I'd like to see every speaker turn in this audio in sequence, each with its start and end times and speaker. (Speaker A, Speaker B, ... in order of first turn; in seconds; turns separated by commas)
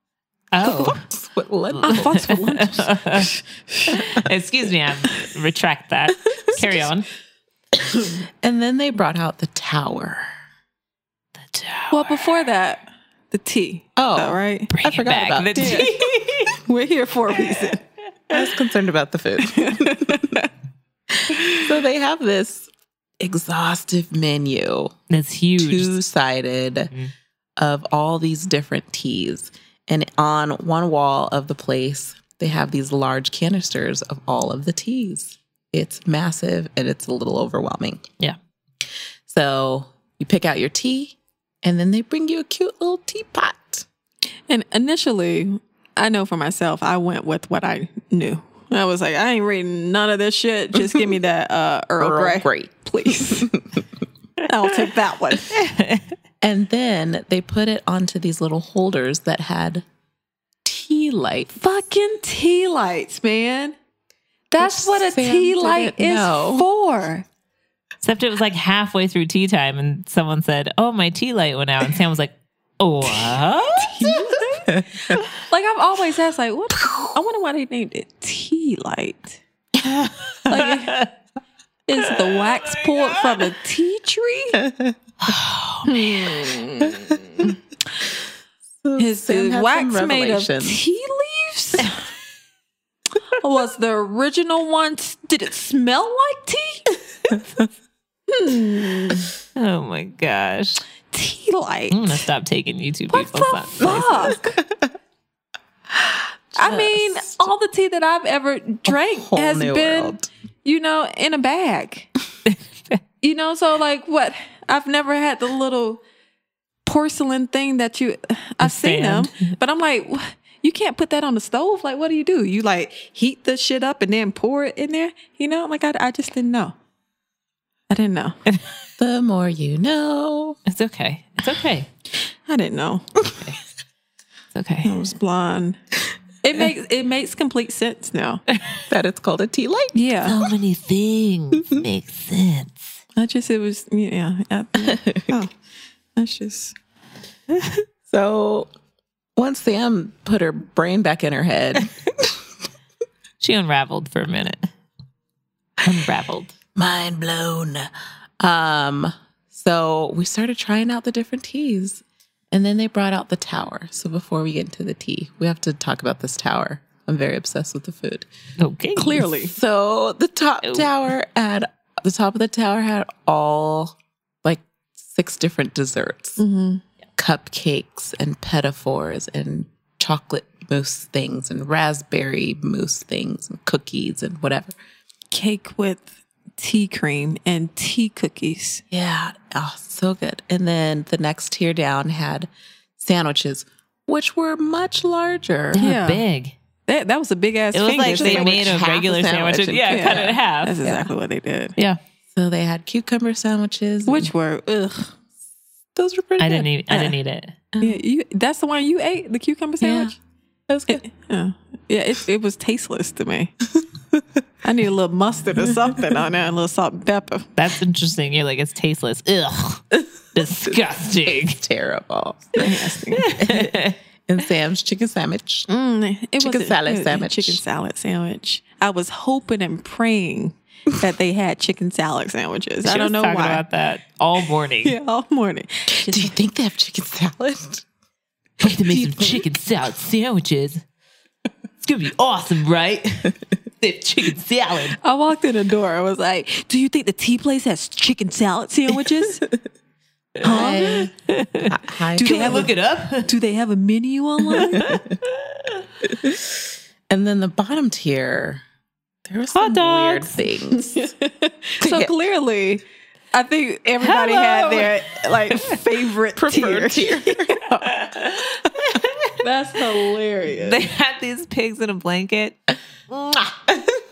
Speaker A: 0.5-1.0, Speaker B: 0.6-2.3, Speaker A: 1.7-3.4, Speaker C: 1.8-4.0, Speaker A: 3.9-7.1, Speaker B: 7.8-10.3, Speaker A: 11.4-12.5, Speaker C: 11.9-14.7, Speaker B: 14.0-16.0, Speaker A: 14.7-16.6, Speaker C: 15.6-15.9, Speaker C: 16.6-17.8, Speaker B: 18.3-20.4, Speaker C: 19.4-20.5, Speaker B: 21.1-22.7, Speaker B: 23.2-24.9, Speaker A: 25.1-26.0, Speaker B: 25.6-26.9, Speaker B: 27.6-38.0, Speaker B: 39.3-43.9, Speaker C: 44.5-53.5, Speaker B: 52.0-53.8, Speaker C: 54.5-55.6, Speaker A: 55.5-56.1, Speaker B: 56.4-59.9, Speaker B: 60.6-61.6, Speaker C: 61.6-63.8, Speaker C: 64.5-67.2, Speaker B: 64.6-66.7, Speaker A: 68.0-73.9, Speaker C: 73.8-79.4, Speaker B: 74.0-75.2, Speaker B: 76.8-77.2, Speaker C: 80.5-81.0, Speaker A: 80.5-81.1, Speaker C: 81.9-84.6, Speaker A: 82.0-83.5, Speaker B: 84.6-85.0, Speaker A: 85.2-86.0, Speaker C: 85.9-87.6, Speaker B: 86.0-87.5, Speaker B: 88.8-90.8, Speaker C: 89.0-92.0, Speaker C: 93.3-96.9, Speaker B: 97.3-97.6, Speaker C: 98.3-99.3, Speaker A: 99.6-100.8, Speaker C: 101.1-102.3, Speaker A: 101.9-104.3, Speaker C: 103.1-104.6, Speaker B: 103.8-104.9, Speaker B: 106.5-107.5, Speaker C: 106.5-112.1, Speaker B: 108.9-110.3, Speaker A: 112.5-113.0, Speaker C: 113.2-116.0, Speaker C: 116.8-126.7, Speaker A: 118.6-119.6, Speaker C: 127.9-128.4, Speaker B: 129.0-130.6, Speaker A: 130.7-131.9, Speaker C: 132.4-133.1, Speaker A: 134.5-134.9, Speaker C: 134.8-135.8, Speaker C: 136.4-138.4, Speaker B: 138.9-139.9, Speaker C: 139.9-140.4, Speaker A: 140.2-143.0, Speaker C: 143.2-145.5, Speaker B: 144.8-145.4, Speaker C: 146.2-146.8, Speaker B: 148.1-148.7, Speaker B: 149.4-152.4, Speaker A: 153.4-154.7, Speaker A: 155.8-156.6, Speaker B: 156.8-168.3, Speaker A: 168.6-169.3, Speaker C: 168.9-169.5, Speaker B: 169.4-176.4, Speaker A: 170.6-170.9, Speaker C: 176.4-176.8, Speaker B: 177.2-184.8, Speaker C: 185.3-188.8, Speaker B: 188.9-195.9, Speaker C: 195.7-196.2, Speaker A: 195.7-196.6, Speaker C: 196.9-198.8, Speaker A: 197.7-200.8, Speaker B: 198.0-201.1, Speaker C: 199.9-201.8, Speaker B: 202.3-204.3, Speaker C: 204.1-205.1, Speaker B: 205.9-206.7, Speaker A: 206.4-207.6, Speaker B: 207.7-208.0, Speaker C: 207.8-210.2, Speaker B: 209.8-210.1, Speaker B: 210.7-211.0, Speaker C: 210.9-213.5, Speaker C: 214.6-217.5, Speaker B: 215.8-216.2, Speaker A: 217.6-221.6, Speaker B: 220.4-222.9, Speaker C: 222.6-223.3, Speaker A: 223.2-224.0, Speaker B: 223.4-225.7, Speaker C: 225.7-233.6, Speaker B: 226.4-227.6, Speaker A: 232.8-235.0, Speaker C: 234.8-236.4, Speaker B: 235.9-237.8, Speaker A: 238.6-240.8, Speaker B: 238.6-239.4, Speaker A: 241.8-245.0, Speaker C: 245.0-249.5, Speaker C: 250.4-251.1, Speaker B: 250.4-251.1, Speaker A: 250.5-253.3, Speaker B: 251.7-252.7, Speaker C: 252.2-254.9, Speaker A: 254.6-255.8, Speaker B: 256.1-258.6, Speaker B: 259.3-261.1, Speaker A: 259.5-260.4, Speaker C: 260.9-267.8, Speaker B: 261.8-262.1, Speaker A: 264.0-265.0, Speaker B: 266.4-267.6, Speaker A: 267.8-269.4, Speaker C: 269.4-270.9, Speaker A: 270.5-273.7